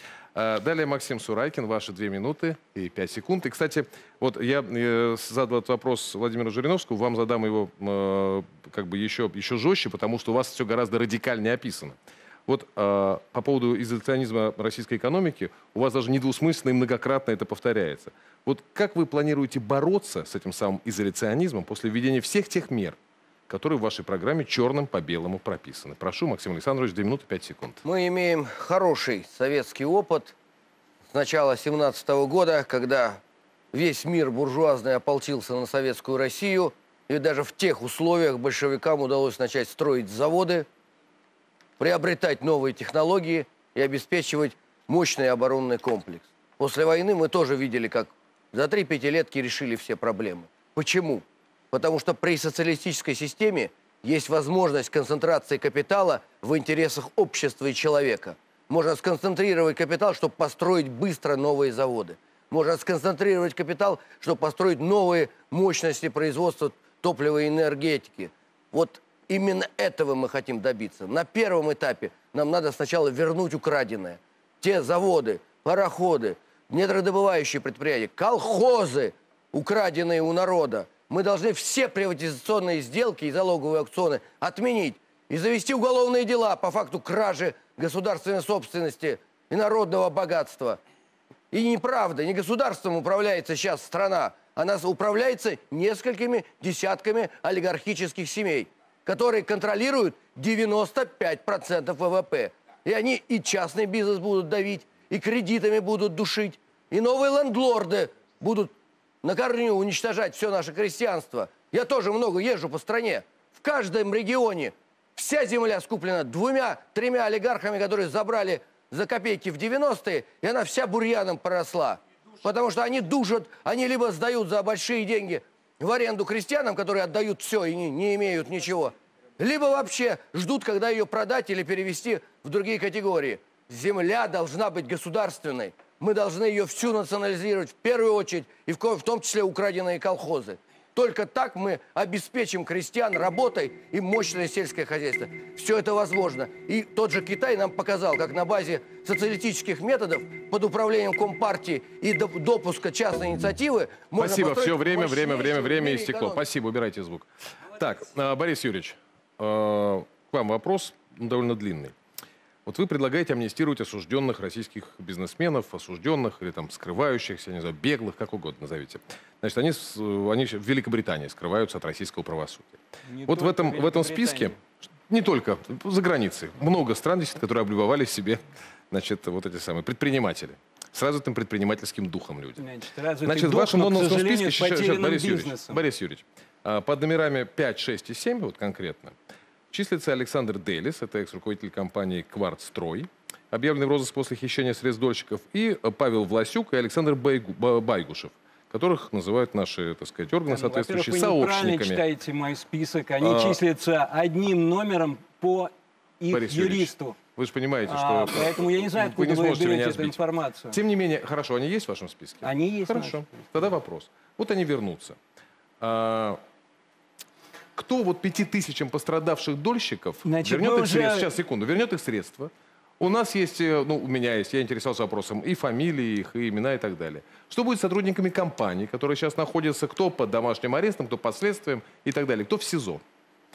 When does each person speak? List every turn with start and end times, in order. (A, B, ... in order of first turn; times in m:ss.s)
0:00.4-0:23.0 A
0:23.5-0:27.8 A
0:27.8-0:30.4 B
0:31.1-0:33.2 B
0:33.7-0:40.7 B
0:41.8-1:30.8 B
1:31.5-2:36.4 B
2:34.2-2:42.0 A
2:42.7-2:54.6 A
2:53.1-2:54.6 C
2:55.1-3:02.6 A
3:02.6-3:05.8 C
3:03.2-3:09.2 A
3:09.7-3:22.0 A
3:20.5-3:27.2 C
3:23.2-3:23.6 A
3:26.3-3:30.2 A
3:27.9-3:30.8 C
3:30.7-3:35.2 A
3:32.4-3:33.5 C
3:35.8-3:36.4 A
3:37.8-3:53.0 A
3:40.2-3:41.3 C